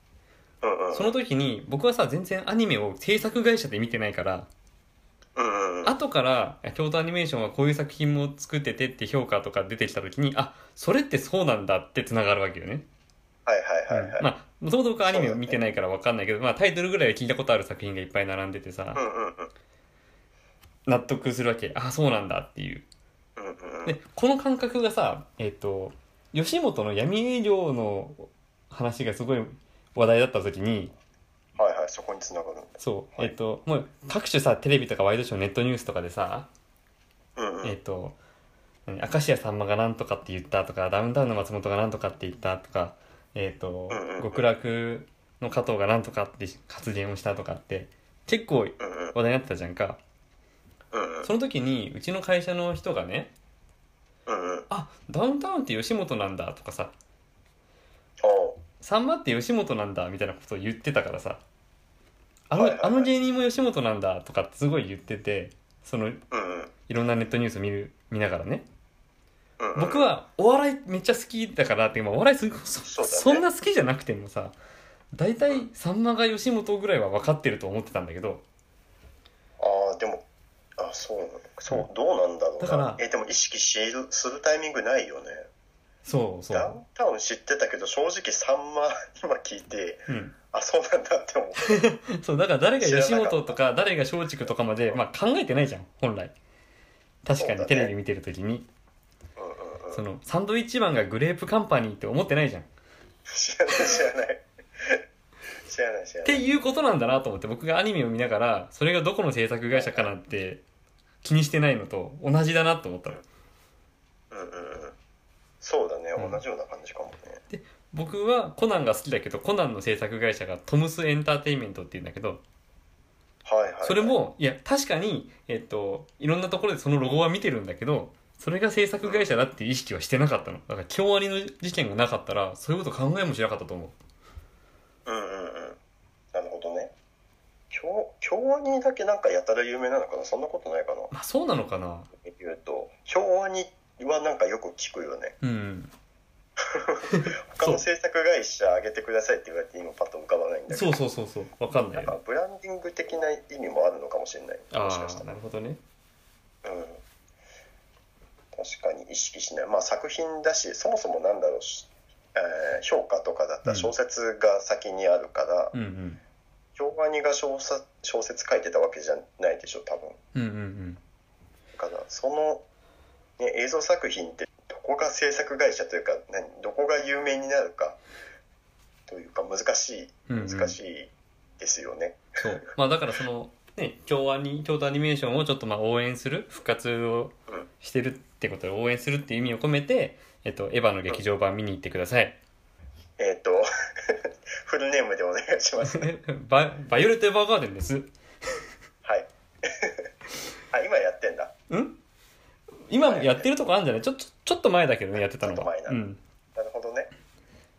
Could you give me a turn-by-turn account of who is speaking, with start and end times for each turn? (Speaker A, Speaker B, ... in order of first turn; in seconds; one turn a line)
Speaker A: 0.6-1.2
Speaker B: 0.9-4.5
Speaker A: 5.3-5.9
Speaker B: 5.8-12.8
Speaker A: 13.4-14.2
Speaker B: 13.9-19.0
Speaker A: 15.0-15.6
Speaker A: 18.9-19.5
Speaker B: 20.9-22.8
Speaker A: 23.4-24.0
Speaker B: 23.8-30.9
Speaker A: 31.6-33.3
Speaker B: 32.8-36.5
Speaker A: 37.4-37.8
Speaker B: 37.6-38.1
Speaker B: 38.9-50.0
Speaker A: 43.9-44.5
Speaker A: 48.8-49.1
Speaker A: 50.9-51.3
Speaker B: 51.2-53.3
Speaker A: 54.3-54.7
Speaker B: 54.7-56.9
Speaker A: 58.2-58.6
Speaker B: 58.8-61.4
Speaker B: 62.5-66.2
Speaker A: 62.5-63.1
Speaker A: 66.3-66.7
Speaker B: 66.9-68.6
Speaker A: 69.6-70.1
Speaker B: 69.8-74.5
Speaker A: 72.8-73.5
Speaker B: 75.1-78.4
Speaker A: 79.6-80.2
Speaker A: 80.8-85.5
Speaker B: 82.6-83.0
Speaker B: 86.0-86.8
Speaker A: 86.5-91.9
Speaker B: 90.1-90.3
Speaker B: 91.7-96.3
Speaker A: 92.8-93.6
Speaker B: 97.2-98.7
Speaker A: 97.3-97.9
Speaker A: 99.4-100.0
Speaker B: 99.9-102.7
Speaker A: 103.3-105.0
Speaker A: 105.7-106.4
Speaker B: 106.2-110.6
Speaker A: 109.7-110.1
Speaker B: 111.2-113.2
Speaker A: 114.3-114.9
Speaker A: 115.6-117.4
Speaker B: 117.5-122.4
Speaker A: 123.4-124.2
Speaker B: 123.8-133.9
Speaker A: 129.0-129.3
Speaker A: 135.1-135.8
Speaker A: 136.3-136.9
Speaker A: 137.7-141.1
Speaker B: 141.1-142.1
Speaker A: 142.2-145.3
Speaker B: 145.4-145.9
Speaker A: 146.6-151.0
Speaker B: 147.1-147.8
Speaker B: 150.7-152.1
Speaker A: 151.9-155.3
Speaker B: 154.7-155.8
Speaker A: 156.6-157.0
Speaker A: 158.5-165.7
Speaker B: 163.7-163.9
Speaker B: 165.7-166.2
Speaker A: 166.8-170.2
Speaker B: 170.3-171.0
Speaker A: 171.8-172.6
Speaker A: 173.4-178.0
Speaker A: 179.1-182.2
Speaker B: 180.3-180.8
Speaker B: 182.4-192.4
Speaker A: 193.2-196.1
Speaker B: 195.8-198.1
Speaker A: 199.0-200.1
Speaker A: 200.7-201.5
Speaker B: 201.7-202.0
Speaker B: 202.9-206.2
Speaker A: 203.0-203.5
Speaker A: 205.2-206.0
Speaker A: 206.6-207.1